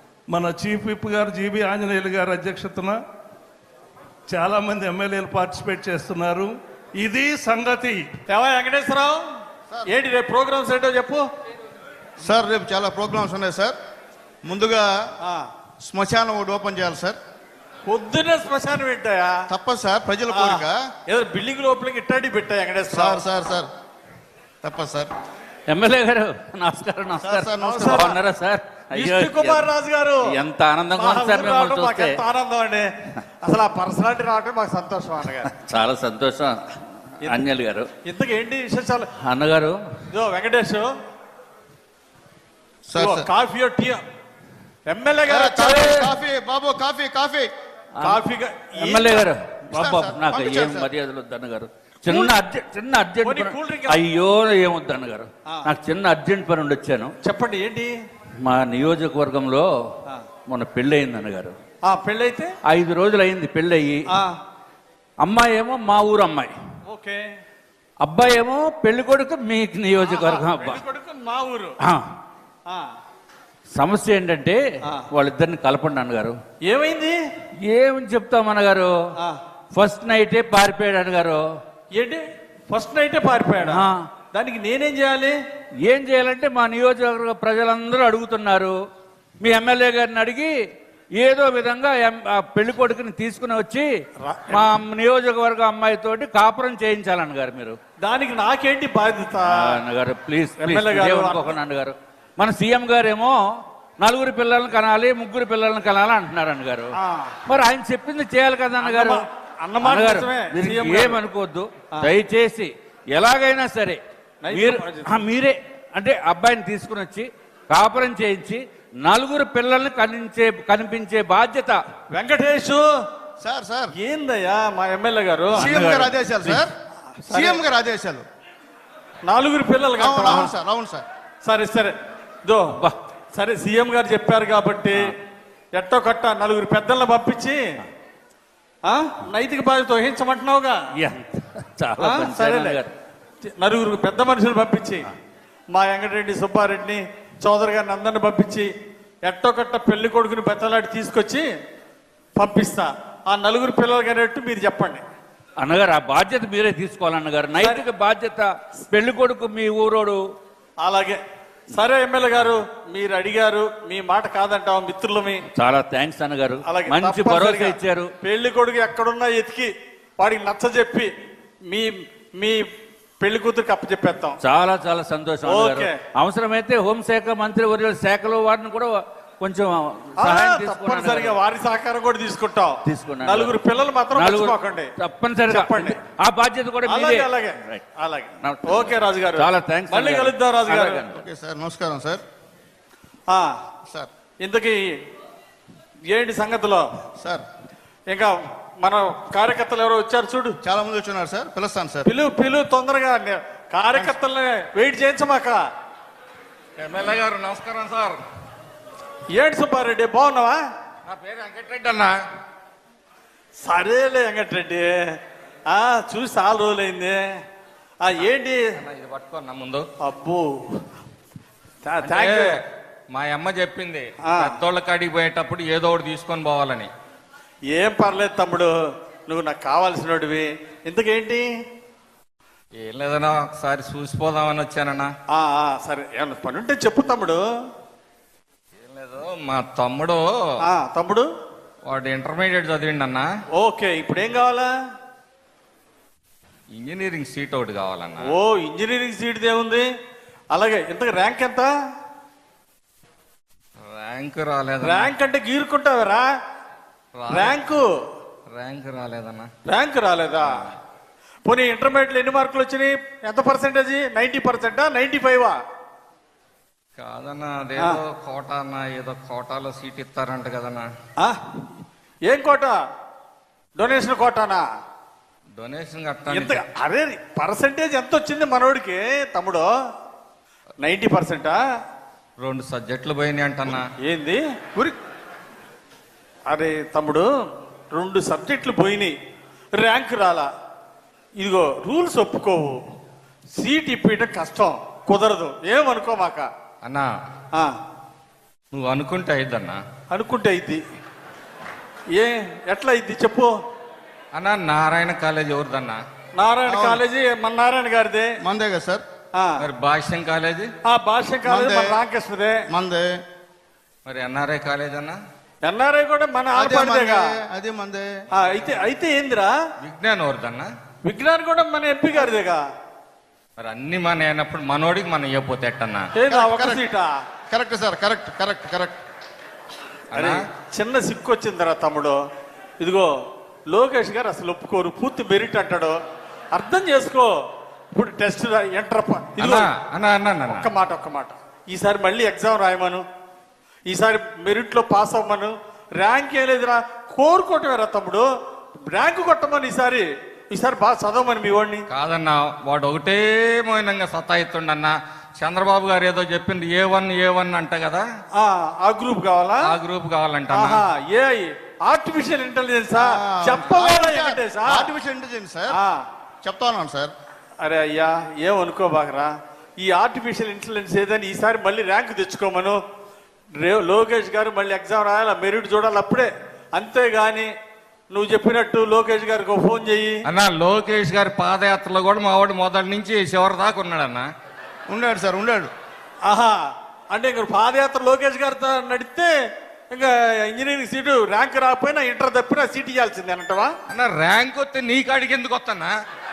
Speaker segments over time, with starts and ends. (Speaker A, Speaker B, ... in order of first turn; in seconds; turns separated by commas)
Speaker A: 0.3-3.0, Speaker A: 4.3-8.1, Speaker B: 8.3-9.2, Speaker B: 9.8-11.2, Speaker C: 12.2-13.8, Speaker C: 14.4-15.1, Speaker C: 15.8-17.2, Speaker B: 17.8-19.4, Speaker C: 19.5-20.8, Speaker B: 20.3-23.2, Speaker C: 22.9-23.7, Speaker C: 24.6-25.1, Speaker D: 25.7-29.7, Speaker C: 27.2-28.0, Speaker B: 27.6-28.2, Speaker B: 28.9-30.3, Speaker D: 30.2-32.2, Speaker B: 30.9-32.9, Speaker B: 33.4-35.5, Speaker D: 35.5-36.6, Speaker D: 37.2-37.9, Speaker B: 38.0-39.1, Speaker D: 39.2-39.7, Speaker B: 40.1-40.9, Speaker C: 42.9-43.3, Speaker B: 42.9-44.0, Speaker B: 44.9-46.1, Speaker C: 45.2-47.5, Speaker B: 48.0-49.3, Speaker D: 48.8-57.1, Speaker C: 49.7-50.9, Speaker B: 52.1-52.3, Speaker B: 53.2-54.0, Speaker B: 57.2-57.9, Speaker D: 58.4-59.7, Speaker D: 60.5-61.5, Speaker B: 61.8-62.5, Speaker D: 62.7-64.0, Speaker D: 65.2-66.5, Speaker B: 66.8-67.2, Speaker D: 68.0-70.8, Speaker B: 70.0-71.8, Speaker D: 73.7-76.3, Speaker B: 76.7-77.2, Speaker D: 77.7-78.9, Speaker D: 79.7-81.4, Speaker B: 81.9-83.8, Speaker D: 83.7-84.0, Speaker B: 84.3-85.4, Speaker D: 85.8-88.7, Speaker D: 89.4-90.5, Speaker D: 91.2-93.9, Speaker B: 94.2-94.7, Speaker D: 94.5-97.8, Speaker B: 98.0-99.5, Speaker D: 99.5-103.3, Speaker B: 100.6-101.6, Speaker D: 104.0-106.9, Speaker B: 107.0-107.3, Speaker D: 107.5-109.2, Speaker B: 108.8-111.2, Speaker D: 109.8-114.0, Speaker B: 114.4-115.1, Speaker D: 114.5-121.8, Speaker B: 122.1-122.8, Speaker C: 123.4-123.9, Speaker B: 124.0-125.7, Speaker D: 125.5-126.7, Speaker C: 125.5-126.7, Speaker B: 127.3-127.6, Speaker C: 127.3-128.2, Speaker B: 129.2-130.5, Speaker C: 130.0-131.0, Speaker B: 131.4-132.7, Speaker B: 133.3-135.1, Speaker B: 135.7-137.6, Speaker B: 138.8-140.8, Speaker D: 141.0-142.9, Speaker B: 142.0-142.8, Speaker B: 143.6-145.1, Speaker B: 145.7-148.7, Speaker B: 149.2-151.4, Speaker B: 152.3-155.0, Speaker D: 155.6-160.2, Speaker B: 157.6-157.8, Speaker B: 160.8-161.2, Speaker B: 161.7-165.4, Speaker D: 165.5-168.1, Speaker B: 166.6-171.1, Speaker B: 171.7-172.6, Speaker B: 173.2-174.3, Speaker D: 174.4-181.4, Speaker B: 175.4-176.0, Speaker B: 180.2-184.9, Speaker D: 182.8-183.6, Speaker D: 184.1-187.8, Speaker B: 185.5-186.0, Speaker B: 186.8-191.0, Speaker D: 188.4-191.2, Speaker C: 191.1-192.2, Speaker B: 194.4-194.9, Speaker B: 196.1-196.8, Speaker C: 197.2-197.4, Speaker B: 198.1-200.6, Speaker C: 200.6-202.1, Speaker B: 202.0-205.6, Speaker E: 206.8-208.2, Speaker B: 209.3-210.6, Speaker E: 211.1-212.1, Speaker B: 213.6-215.1, Speaker B: 215.7-217.2, Speaker B: 218.0-218.6, Speaker E: 218.8-219.9, Speaker B: 220.0-220.5, Speaker B: 221.8-222.5, Speaker E: 222.0-222.6, Speaker E: 223.1-226.9, Speaker B: 224.2-224.5, Speaker B: 227.7-228.7, Speaker B: 229.3-231.4, Speaker E: 232.8-235.1, Speaker B: 235.3-237.4, Speaker E: 238.8-240.2, Speaker B: 240.7-241.2, Speaker E: 241.8-243.3, Speaker B: 243.6-244.7, Speaker E: 246.7-248.3, Speaker B: 248.2-249.8, Speaker B: 250.5-251.7, Speaker E: 253.8-255.1, Speaker B: 254.8-256.2, Speaker E: 257.1-257.6, Speaker B: 257.3-257.9, Speaker E: 258.5-259.5, Speaker B: 259.6-260.5, Speaker E: 260.4-260.8, Speaker B: 261.4-265.6, Speaker E: 267.0-270.9, Speaker B: 272.3-272.8, Speaker B: 273.8-274.6, Speaker E: 275.6-276.6, Speaker B: 276.3-279.6, Speaker B: 280.8-281.6, Speaker E: 282.4-283.9, Speaker B: 284.0-284.4, Speaker B: 286.5-287.2, Speaker B: 287.9-289.1, Speaker B: 289.8-290.5, Speaker B: 291.4-292.8, Speaker B: 293.6-296.5, Speaker E: 296.8-297.1, Speaker E: 298.7-299.8, Speaker B: 300.1-300.8, Speaker B: 302.1-303.5, Speaker E: 304.3-306.0, Speaker B: 306.4-308.3, Speaker C: 306.6-307.0, Speaker C: 308.4-309.0, Speaker B: 309.3-309.6, Speaker E: 309.6-310.7, Speaker B: 310.9-312.6, Speaker C: 311.4-312.0, Speaker C: 312.7-313.2, Speaker E: 314.1-315.2, Speaker B: 315.6-317.3, Speaker C: 316.5-318.1, Speaker B: 318.3-319.5, Speaker E: 319.8-320.7, Speaker B: 321.0-322.6, Speaker E: 323.6-326.1, Speaker B: 326.1-327.1, Speaker C: 326.3-326.8, Speaker C: 327.5-329.0, Speaker E: 330.1-330.4, Speaker B: 330.1-332.2, Speaker B: 332.8-333.1, Speaker B: 333.7-335.9, Speaker B: 336.5-337.3, Speaker B: 337.9-339.7, Speaker E: 339.4-340.7, Speaker B: 340.5-343.0, Speaker B: 343.9-348.2, Speaker B: 348.9-351.8, Speaker E: 351.9-358.0, Speaker B: 358.4-359.7, Speaker E: 359.6-360.8, Speaker B: 360.5-364.9, Speaker C: 362.9-365.8, Speaker B: 365.7-366.0, Speaker C: 366.4-367.1, Speaker B: 367.6-372.8, Speaker B: 373.6-377.5, Speaker B: 378.1-380.2, Speaker E: 380.2-384.3, Speaker C: 384.9-385.7, Speaker B: 386.2-386.6, Speaker B: 387.1-389.3, Speaker B: 389.9-393.7, Speaker E: 393.9-395.9